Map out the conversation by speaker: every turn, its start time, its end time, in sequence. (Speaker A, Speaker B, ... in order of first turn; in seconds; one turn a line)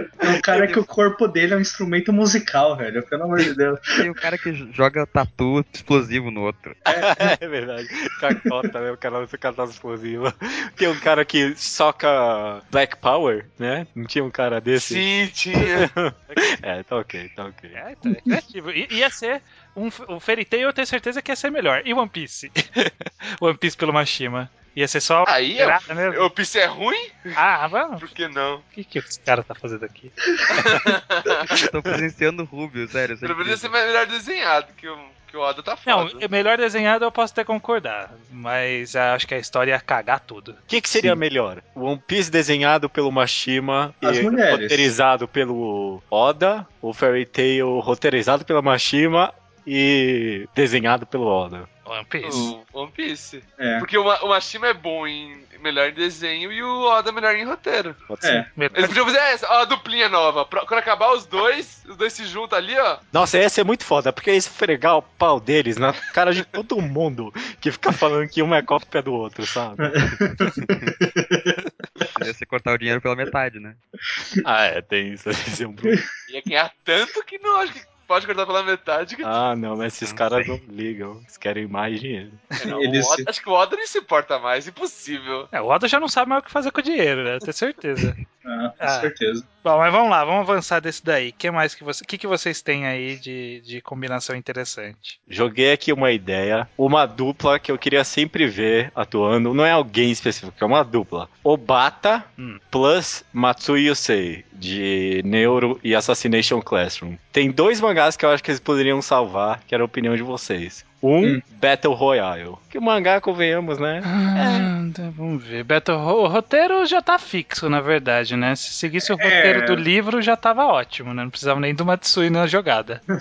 Speaker A: 0.2-4.0
Speaker B: 0.5-0.8
Speaker B: 4.0-6.8
Speaker A: 6.9-7.3
Speaker C: 6.9-17.8
Speaker D: 14.8-15.9
Speaker E: 17.7-26.3
Speaker D: 25.2-27.4
Speaker E: 27.4-28.1
Speaker D: 28.0-28.6
Speaker E: 28.6-30.1
Speaker D: 30.5-31.5
Speaker B: 31.5-33.8
Speaker D: 33.2-36.3
Speaker E: 35.9-40.6
Speaker C: 40.7-51.7
Speaker A: 44.0-44.9
Speaker E: 51.9-52.5
Speaker D: 52.2-58.1
Speaker A: 53.6-53.9
Speaker C: 58.1-58.5
Speaker A: 58.2-58.5
Speaker E: 58.6-59.0
Speaker D: 58.7-63.0
Speaker C: 63.1-69.9
Speaker A: 69.8-71.6
Speaker B: 72.1-73.8
Speaker C: 74.4-76.0
Speaker D: 76.3-79.3
Speaker C: 79.2-82.4
Speaker B: 80.0-80.5
Speaker D: 82.6-85.5
Speaker A: 82.7-83.3
Speaker E: 85.5-88.2
Speaker A: 88.5-89.5
Speaker E: 88.8-89.1
Speaker E: 89.6-95.2
Speaker C: 95.3-114.7
Speaker E: 114.0-123.0
Speaker A: 119.0-119.8